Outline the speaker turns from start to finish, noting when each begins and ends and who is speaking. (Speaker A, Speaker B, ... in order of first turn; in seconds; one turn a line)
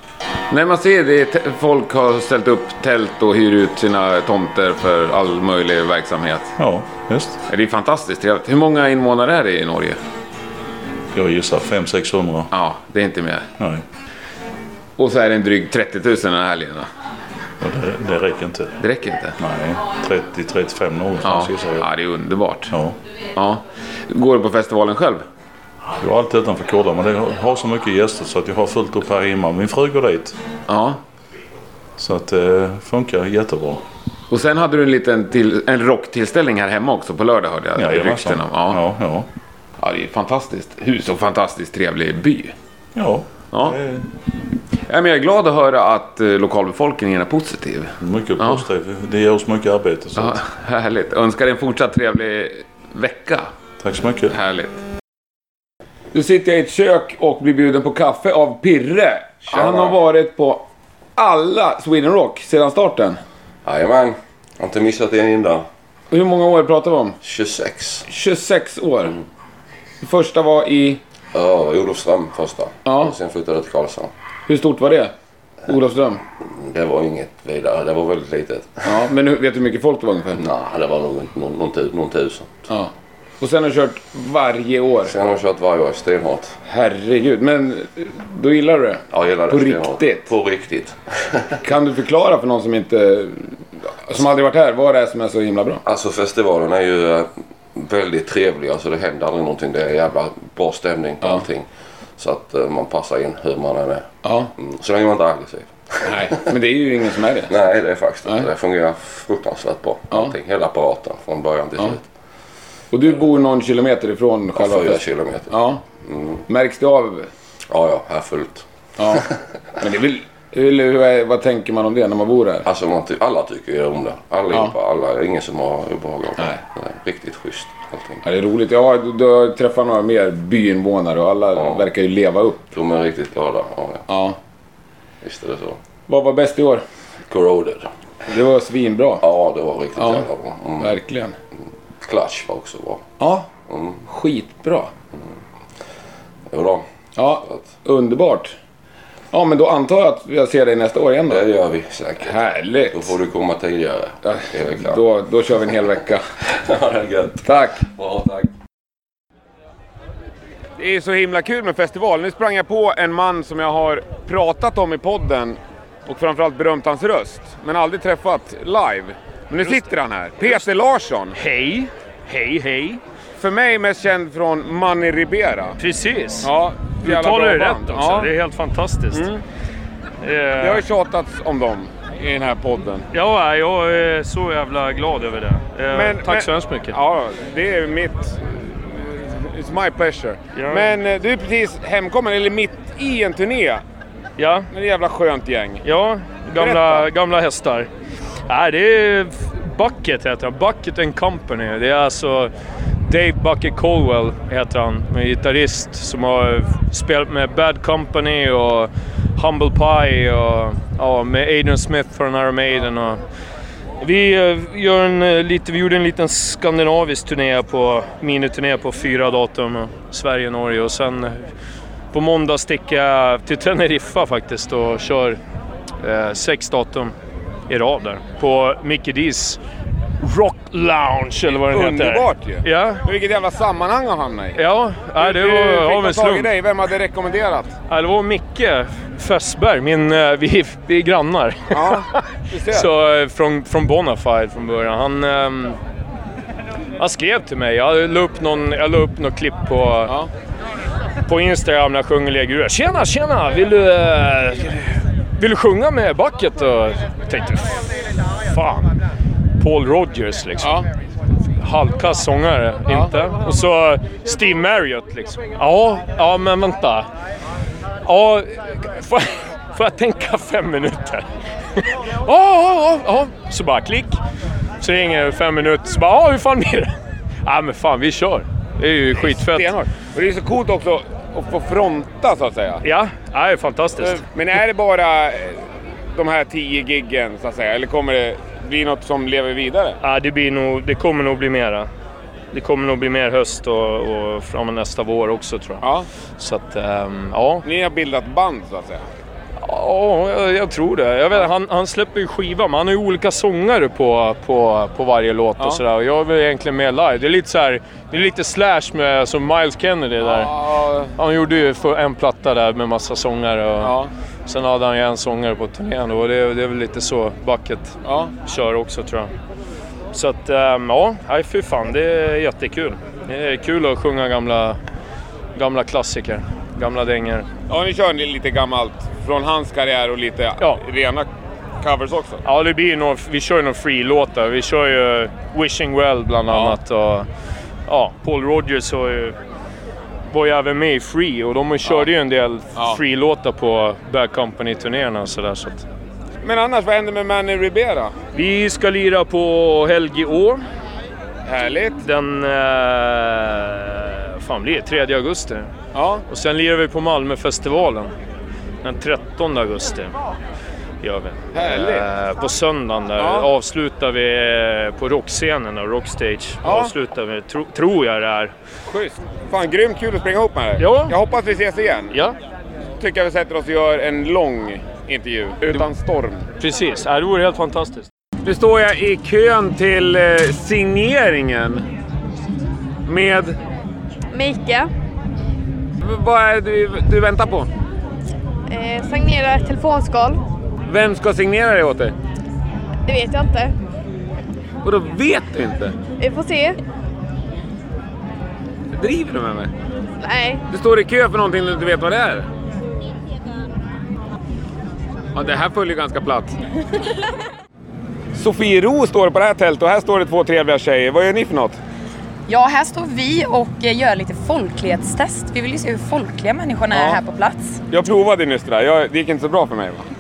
Speaker A: 0.5-6.5
Speaker B: 6.6-7.4
Speaker A: 7.5-10.0
Speaker B: 11.1-12.5
Speaker A: 12.5-13.5
Speaker B: 13.6-13.8
Speaker A: 15.0-16.9
Speaker B: 17.6-18.8
Speaker A: 18.8-19.4
Speaker B: 19.4-21.9
Speaker A: 21.2-22.7
Speaker B: 22.7-23.0
Speaker A: 23.4-25.2
Speaker B: 26.0-30.4
Speaker A: 30.7-31.0
Speaker B: 32.0-33.8
Speaker A: 34.3-38.8
Speaker B: 37.8-39.3
Speaker A: 39.8-42.5
Speaker B: 43.0-44.0
Speaker A: 44.9-48.7
Speaker B: 48.0-50.4
Speaker A: 50.2-53.5
Speaker B: 53.8-54.3
Speaker A: 54.3-54.8
Speaker A: 56.1-60.6
Speaker C: 59.5-60.0
Speaker A: 61.2-63.2
Speaker C: 63.6-65.7
Speaker A: 66.1-67.2
Speaker C: 67.2-68.1
Speaker A: 68.1-69.2
Speaker A: 70.0-71.0
Speaker C: 71.3-74.1
Speaker A: 72.9-73.2
Speaker A: 74.5-75.1
Speaker A: 75.7-76.2
Speaker C: 76.4-78.9
Speaker A: 78.8-80.4
Speaker C: 80.4-82.6
Speaker A: 82.7-85.2
Speaker C: 85.0-86.6
Speaker A: 86.7-90.3
Speaker C: 89.1-91.0
Speaker A: 91.6-95.8
Speaker C: 95.9-101.7
Speaker C: 102.2-104.0
Speaker A: 104.2-104.5
Speaker C: 104.6-106.3
Speaker A: 106.0-107.6
Speaker C: 107.5-112.0
Speaker A: 112.9-115.8
Speaker C: 114.5-115.5
Speaker C: 116.0-116.4
Speaker A: 116.5-117.3
Speaker C: 117.7-119.2
Speaker A: 119.0-119.2
Speaker A: 119.8-122.7
Speaker C: 122.6-128.2
Speaker A: 128.2-132.7
Speaker C: 131.6-131.8
Speaker C: 132.7-134.0
Speaker A: 134.1-134.4
Speaker C: 135.2-135.8
Speaker A: 136.1-136.8
Speaker C: 137.3-137.9
Speaker A: 138.3-139.2
Speaker C: 139.2-141.0
Speaker A: 140.0-140.3
Speaker A: 140.8-141.3
Speaker C: 142.0-143.0
Speaker A: 143.2-143.5
Speaker C: 143.7-144.0
Speaker A: 144.1-144.9
Speaker C: 146.5-146.8
Speaker A: 147.2-148.6
Speaker A: 149.3-151.5
Speaker C: 151.3-152.4
Speaker A: 152.2-153.2
Speaker C: 152.9-155.0
Speaker A: 154.2-156.3
Speaker C: 156.6-158.5
Speaker A: 157.4-157.8
Speaker A: 160.8-171.4
Speaker D: 169.6-170.7
Speaker D: 171.3-173.0
Speaker A: 173.4-175.8
Speaker D: 175.8-176.5
Speaker A: 176.4-178.3
Speaker D: 177.0-179.3
Speaker A: 179.1-179.4
Speaker D: 180.2-180.8
Speaker A: 180.6-183.1
Speaker D: 183.1-187.0
Speaker A: 185.9-193.8
Speaker D: 190.5-190.9
Speaker D: 194.4-194.7
Speaker A: 194.7-195.8
Speaker D: 195.8-197.9
Speaker A: 196.6-197.1
Speaker D: 198.5-202.5
Speaker D: 203.1-213.2
Speaker D: 214.0-221.5
Speaker D: 222.1-225.4
Speaker D: 226.0-227.1
Speaker D: 227.7-229.6
Speaker D: 230.2-233.0
Speaker A: 231.7-234.6
Speaker D: 234.6-236.5
Speaker A: 235.2-237.8
Speaker D: 237.9-242.0
Speaker A: 241.7-242.9
Speaker D: 242.7-245.8
Speaker D: 247.0-250.1
Speaker D: 251.3-257.8
Speaker D: 258.5-258.9
Speaker D: 259.6-260.8
Speaker A: 260.6-260.9
Speaker D: 261.6-267.1
Speaker A: 262.9-263.1
Speaker D: 268.1-271.2
Speaker D: 272.2-274.2
Speaker D: 274.8-276.9
Speaker D: 277.4-279.7
Speaker A: 279.1-282.8
Speaker D: 282.8-284.2
Speaker A: 284.0-285.6
Speaker A: 286.1-290.0
Speaker D: 290.0-291.9
Speaker D: 292.5-295.8
Speaker A: 295.8-296.1
Speaker D: 296.4-297.6
Speaker A: 297.6-299.0
Speaker D: 299.6-310.5
Speaker A: 310.2-311.1
Speaker D: 311.2-319.3
Speaker A: 313.8-314.1
Speaker A: 318.1-318.3
Speaker D: 320.1-324.8
Speaker D: 325.6-327.5
Speaker A: 327.7-331.3
Speaker A: 331.8-332.4
Speaker D: 332.4-337.3
Speaker A: 336.5-336.8
Speaker D: 337.9-339.4
Speaker D: 340.3-345.9
Speaker A: 341.9-342.1
Speaker A: 346.4-348.1
Speaker D: 348.4-350.6
Speaker A: 351.4-352.0
Speaker D: 352.0-355.7
Speaker A: 355.9-356.2
Speaker D: 356.3-358.1
Speaker D: 358.8-360.1
Speaker D: 361.0-368.5
Speaker A: 361.5-362.1
Speaker A: 363.2-363.5
Speaker A: 366.6-366.9
Speaker A: 368.9-372.2
Speaker D: 370.8-371.1
Speaker A: 373.0-376.5
Speaker D: 376.6-378.1
Speaker A: 378.4-381.9
Speaker A: 383.1-383.6
Speaker E: 384.3-384.9
Speaker A: 386.0-387.7
Speaker E: 388.7-390.4
Speaker A: 390.9-392.1
Speaker E: 393.1-393.8
Speaker A: 394.8-395.9
Speaker E: 396.2-396.8
Speaker A: 398.9-399.7
Speaker E: 400.2-400.6
Speaker A: 400.7-402.5
Speaker A: 405.4-406.6
Speaker A: 408.3-411.8
Speaker F: 412.5-417.8
Speaker A: 416.9-417.2
Speaker A: 417.9-420.1